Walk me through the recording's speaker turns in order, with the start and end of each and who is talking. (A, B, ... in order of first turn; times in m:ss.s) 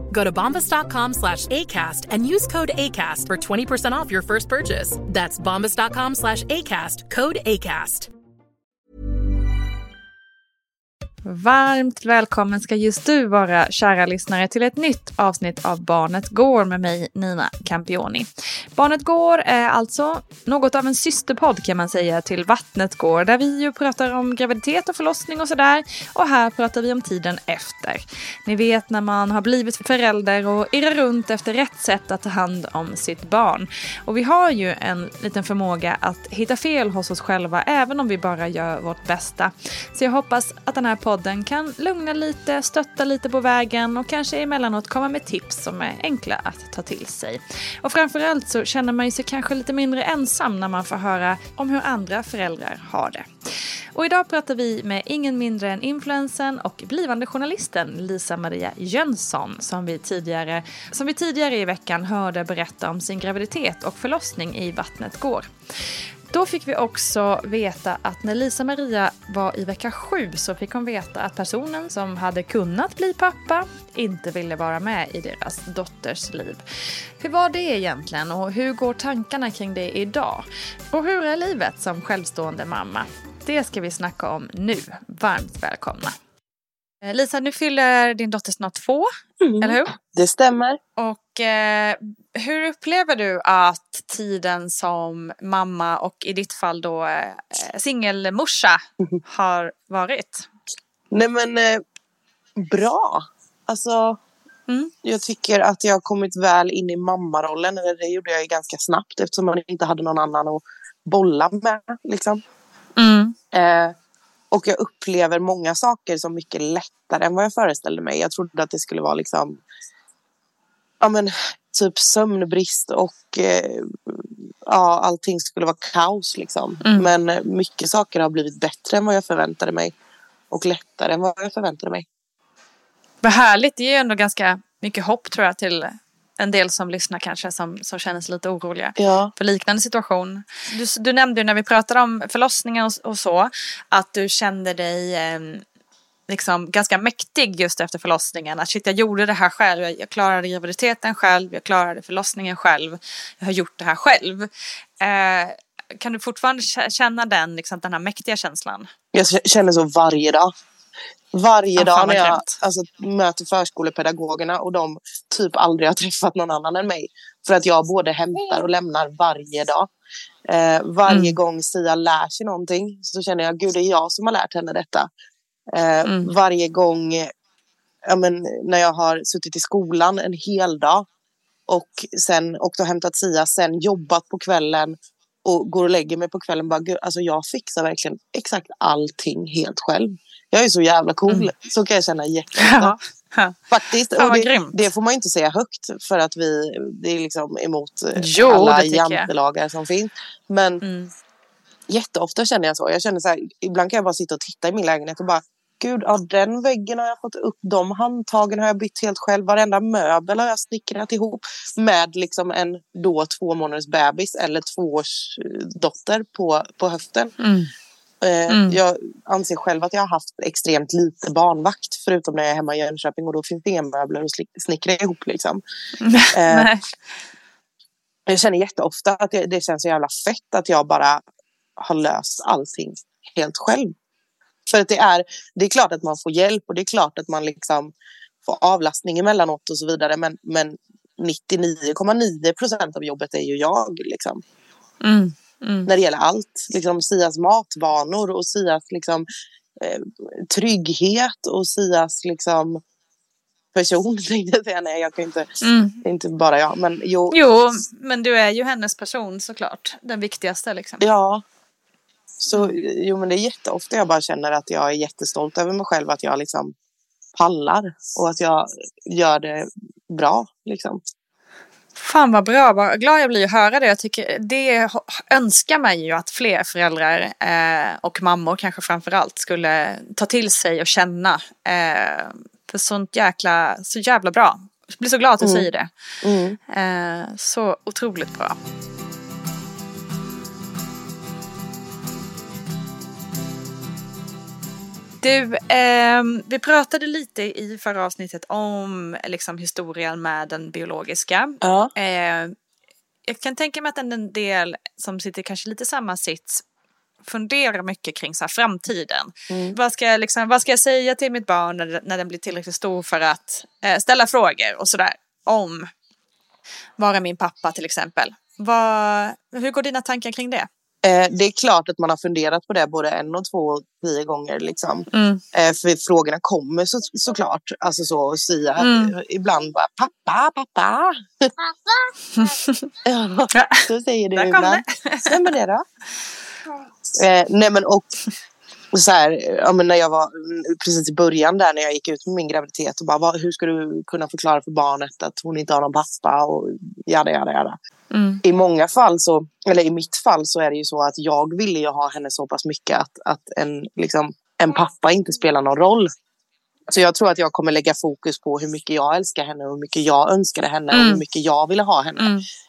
0:00.3-0:08.0 A
0:11.2-0:53.3 B
0:53.9-1:05.5 B
1:06.3-1:16.6 B
1:17.2-1:26.2 B
1:27.0-1:29.1 B
1:29.4-1:30.8 C
1:29.6-1:29.9 B
1:31.0-1:40.5 B
1:41.1-1:41.8 C
1:42.6-1:44.2 C
1:45.0-1:52.4 C
1:53.0-1:53.3 B
1:53.5-1:53.9 C
1:54.5-1:59.6 C
2:01.0-2:09.9 C
2:06.8-2:07.1 B
2:10.5-2:12.0 C
2:13.2-2:25.6 B
2:19.0-2:19.3 C
2:26.3-2:34.5 B
2:35.0-2:38.9 B
2:39.1-2:40.5 C
2:41.3-2:49.9 C
2:41.8-2:42.5 B
2:50.5-2:55.1 C
2:51.1-2:51.4 B
2:55.7-2:57.3 C
2:56.0-2:56.3 B
2:58.1-3:01.0 C
3:01.7-3:13.0 C
3:12.6-3:13.6 B
3:13.7-3:20.8 C
3:14.2-3:14.8 B
3:18.2-3:19.3 B
3:20.8-3:21.1 B
3:21.9-3:37.3 C
3:37.4-3:37.7 B
3:38.2-3:45.6 C
3:38.5-3:38.8 B
3:46.0-3:46.8 B
3:46.3-3:46.7 C
3:48.3-3:51.2 C
3:51.8-3:53.9 C
3:54.7-3:57.9 C
3:58.4-4:04.4 C
4:05.0-4:05.9 B
4:05.9-4:09.3 C
4:09.8-4:12.8 C
4:13.7-4:15.5 C
4:15.6-4:16.0 B
4:16.0-4:17.4 C
4:17.3-4:21.0 B
4:21.0-4:21.4 C
4:22.4-4:26.7 C
4:27.4-4:31.0 C
4:32.0-4:45.9 B
4:45.4-4:45.7 C
4:46.2-4:46.6 C
4:46.7-4:48.6 B
4:55.2-5:02.5 B
5:01.6-5:01.9 C
5:03.3-5:06.6 B
5:07.2-5:15.8 B
5:09.5-5:09.8 C
5:17.0-5:20.7 B
5:21.0-5:32.1 C
5:25.1-5:25.4 B
5:28.8-5:29.1 B
5:32.4-5:32.7 B
5:33.0-5:35.8 C
5:33.5-5:35.4 B
5:37.2-5:38.1 C
5:38.9-5:47.8 C
5:48.1-5:48.4 B
5:48.4-5:56.1 C
5:56.9-6:02.3 C
6:00.9-6:01.2 B
6:02.2-6:02.4 B